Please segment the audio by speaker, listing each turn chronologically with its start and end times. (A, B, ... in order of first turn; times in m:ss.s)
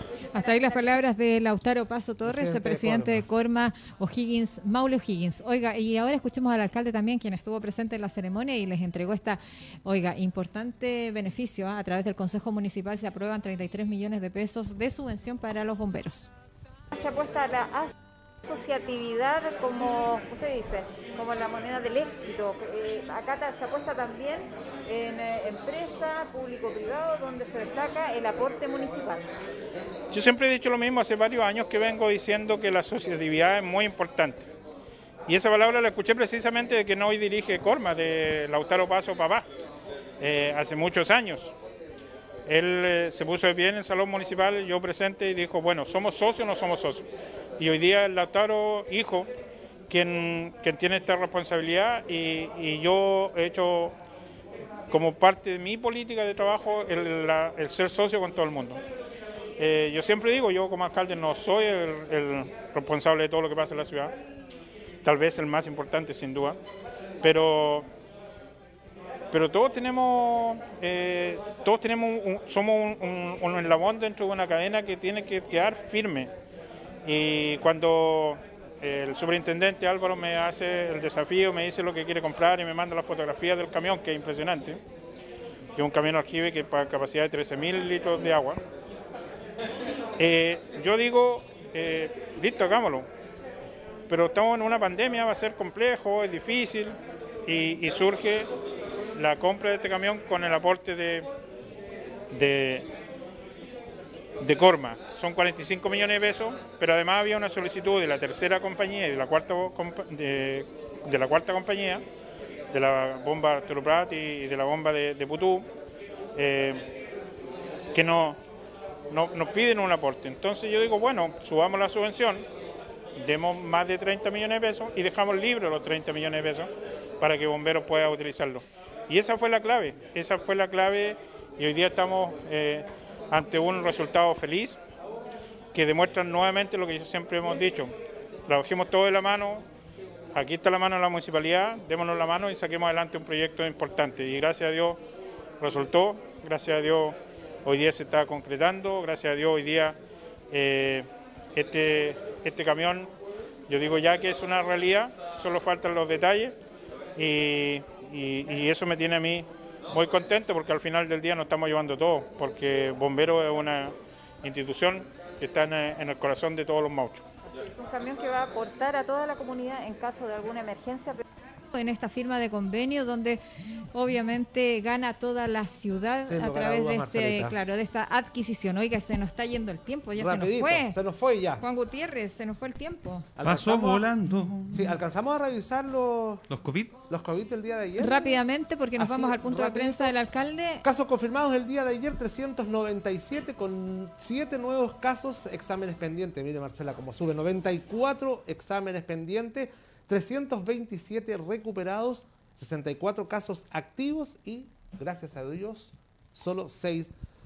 0:00.3-0:16.3 A
0:02.2-0:03.2 B
0:16.9-0:29.3 A
0:30.1-0:34.5 C
0:35.3-0:39.4 C
0:40.2-0:41.5 C
0:42.4-0:47.0 C
0:47.6-0:49.3 C
0:49.9-0:53.9 C
0:54.9-0:58.8 C
0:59.6-1:04.1 C
1:05.0-1:06.6 C
1:07.2-1:07.9 C
1:09.3-1:16.3 C
1:17.0-1:24.8 C
1:25.8-1:28.6 C
1:30.2-1:33.1 C
1:34.1-1:38.5 C
1:39.2-1:41.2 C
1:42.3-1:42.9 C
1:44.4-1:52.0 C
1:52.7-1:55.6 C
1:56.3-1:56.8 C
1:57.9-1:58.4 C
1:59.1-2:02.4 C
2:03.2-2:14.8 C
2:15.7-2:17.9 C
2:18.5-2:19.6 C
2:20.3-2:25.0 C
2:25.6-2:30.0 C
2:30.5-2:33.1 C
2:33.7-2:36.5 C
2:37.2-2:47.2 C
2:47.6-2:53.4 A
2:53.9-3:01.0 A
2:56.2-2:57.6 B
3:00.2-3:01.6 B
3:01.6-3:03.2 A
3:03.4-3:04.1 B
3:03.4-3:05.0 D
3:04.7-3:06.4 B
3:06.5-3:07.0 D
3:07.0-3:08.4 B
3:08.0-3:10.8 A
3:09.0-3:10.1 B
3:10.8-3:27.1 B